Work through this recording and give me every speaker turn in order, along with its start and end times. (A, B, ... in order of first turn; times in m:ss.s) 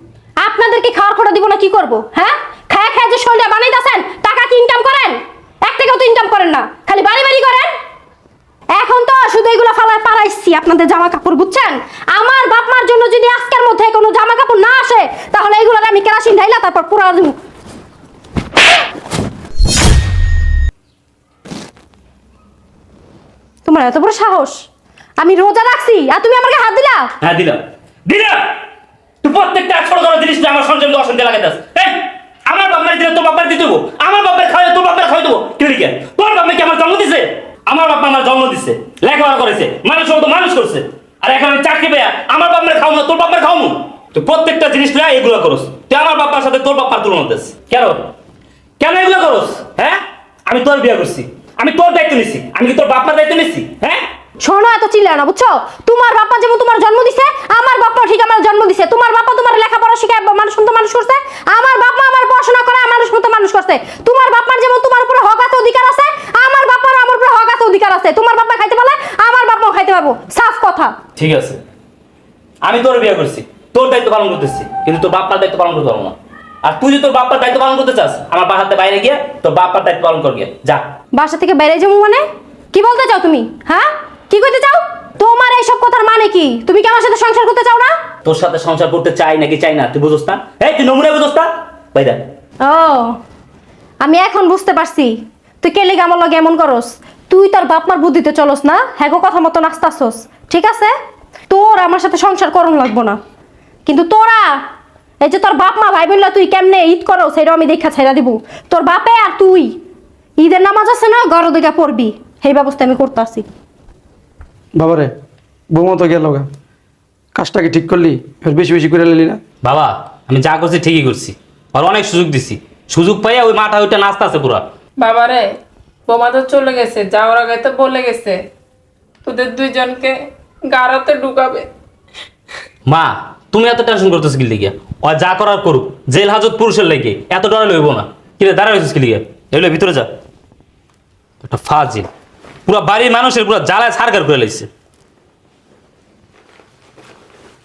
0:00.4-0:07.7 A
0:08.7-0:17.3 A
0:23.6-0:24.6 A
0:25.2-0:27.1 A
0:27.2-0:28.4 B
0:29.2-0:48.0 B
0:48.8-0:54.0 B
0:54.4-1:10.9 A
1:11.2-1:11.6 B
1:12.6-1:20.8 B
1:21.1-1:27.9 A
1:28.2-1:32.2 B
1:32.6-1:33.2 A
1:34.0-1:40.9 A
1:41.5-1:43.2 A
1:43.8-1:44.5 A
1:45.2-1:49.7 A
1:50.4-1:53.4 A
1:54.7-1:55.1 C
1:55.7-1:56.5 C
1:57.3-1:59.4 C
1:59.6-2:04.6 B
2:05.0-2:05.4 D
2:06.1-2:08.4 D
2:09.2-2:10.2 D
2:10.7-2:11.7 D
2:12.9-2:20.1 B
2:21.4-2:22.1 B
2:22.6-2:24.7 B